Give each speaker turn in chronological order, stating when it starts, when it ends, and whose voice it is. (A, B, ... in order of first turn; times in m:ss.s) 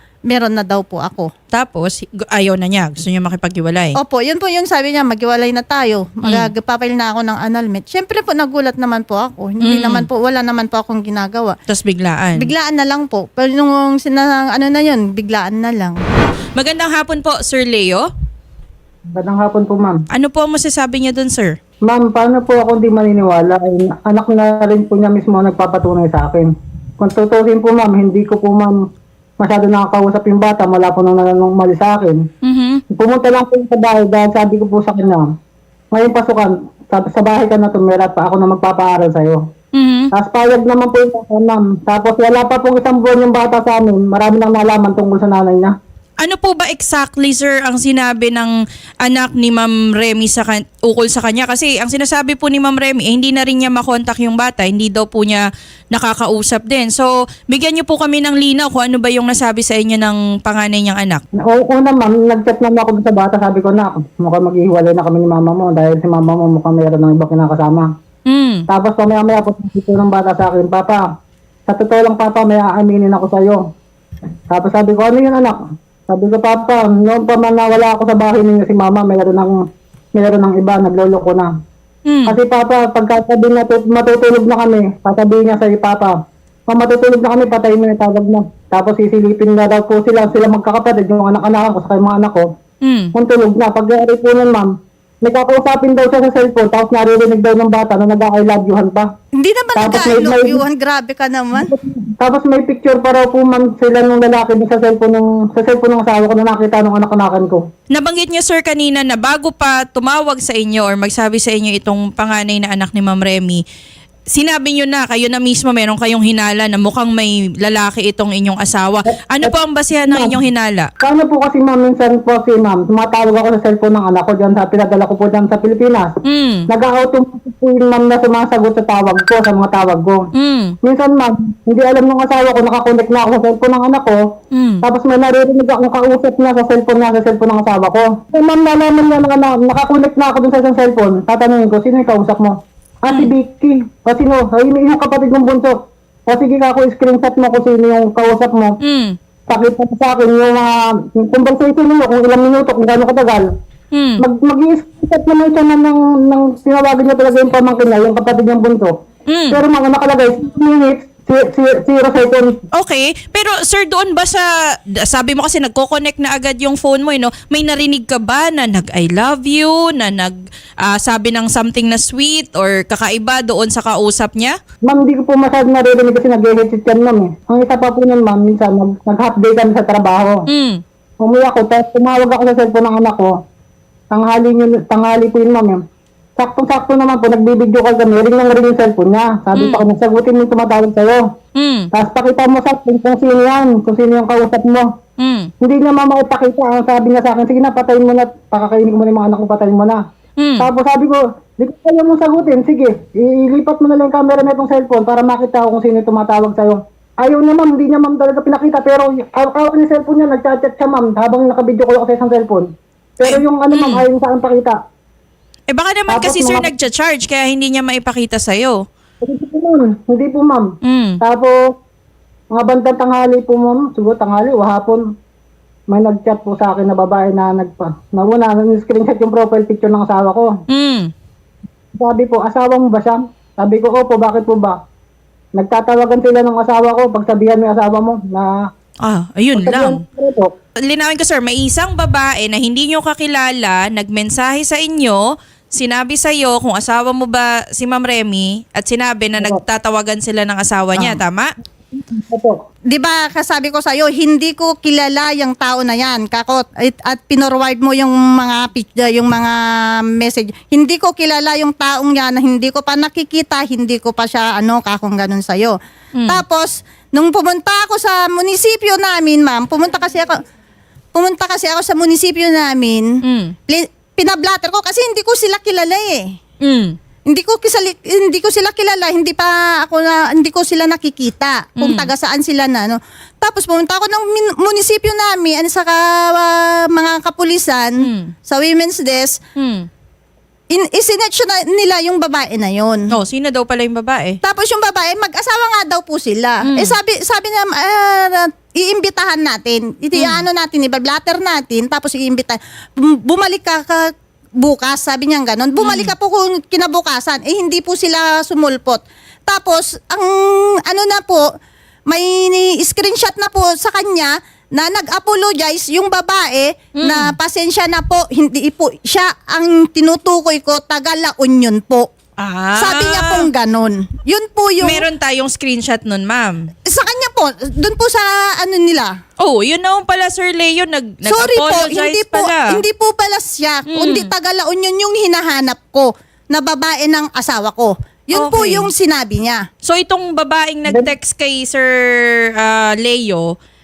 0:00.3-0:01.3 A
0:01.5-0:04.0 B
0:04.0-0:11.6 A
0:06.2-0:06.5 B
0:09.6-0:10.1 B
0:11.7-0:12.5 B
0:12.4-0:16.0 A
0:16.6-0:18.1 B
0:19.1-0:20.0 C
0:20.1-0:21.6 B
0:21.9-0:28.8 C
0:29.4-0:32.2 C
0:32.4-0:32.8 B
0:32.9-0:35.3 C
0:35.9-0:39.4 C
0:39.7-0:40.1 B
0:40.1-0:45.8 C
0:46.2-1:01.2 B
1:01.4-1:07.9 C
1:08.3-1:08.6 B
1:08.7-1:11.1 C
1:11.7-1:13.6 C
1:14.5-1:19.6 C
1:20.2-1:21.5 C
1:22.1-1:22.4 B
1:22.3-1:26.2 C
1:26.7-1:32.5 C
1:32.8-1:33.1 B
1:33.2-1:39.1 C
1:39.4-1:41.7 A
1:39.8-1:40.6 C
1:41.6-1:47.7 C
1:47.9-1:53.6 B
1:54.3-2:00.9 B
1:59.4-2:00.4 C
2:01.0-2:06.2 C
2:06.2-2:06.7 B
2:06.7-2:10.2 C
2:10.4-2:10.8 B
2:10.8-2:14.2 C
2:14.5-2:14.8 B
2:14.8-2:25.8 C
2:26.3-2:28.8 C
2:28.8-2:29.2 B
2:29.5-2:33.5 C
2:33.9-2:34.2 B
2:34.2-2:38.9 C
2:39.3-2:39.6 B
2:39.5-2:42.6 C
2:42.8-2:54.6 B
2:54.9-3:00.4 C
3:00.5-3:00.8 B
3:01.2-3:03.3 C
3:04.1-3:05.8 C
3:06.4-3:11.2 C
3:09.6-3:09.8 B
3:11.6-3:11.9 B
3:11.9-3:14.9 C
3:15.2-3:15.5 B
3:15.6-3:20.0 C
3:20.4-3:20.7 B
3:20.6-3:32.7 C
3:33.2-3:34.8 C
3:33.2-3:34.0 B
3:35.7-3:38.8 B
3:36.1-3:36.7 C
3:39.2-3:40.7 C
3:40.8-3:41.2 B
3:41.2-3:41.6 C
3:42.5-3:45.0 C
3:45.9-3:50.5 C
3:50.7-3:51.1 B
3:51.9-3:54.8 C
3:55.6-3:58.6 C
3:59.0-4:00.0 B
3:59.6-4:00.5 C
4:00.8-4:05.2 B
4:05.8-4:11.5 B
4:11.9-4:12.6 C
4:12.9-4:25.8 A
4:26.2-4:26.4 B
4:26.3-4:30.4 A
4:31.2-4:33.1 A
4:33.2-4:33.5 B
4:33.7-4:36.3 A
4:36.6-4:37.0 B
4:37.3-4:49.4 A
4:41.8-4:42.1 B
4:48.0-4:48.3 B
4:49.6-4:49.9 B
4:50.7-4:53.1 A
4:53.1-4:54.4 B
4:54.4-5:04.1 A
4:56.6-4:57.0 B
5:00.2-5:00.4 B
5:04.6-5:11.4 A
5:05.8-5:06.1 B
5:12.1-5:22.1 A
5:17.0-5:17.3 B
5:22.4-5:23.5 B
5:22.8-5:25.0 A
5:24.8-5:26.7 B
5:26.9-5:29.1 A
5:29.4-5:32.7 B
5:31.2-5:39.6 A
5:33.9-5:34.3 B
5:38.4-5:38.9 B
5:39.8-5:41.9 B
5:42.5-5:43.5 B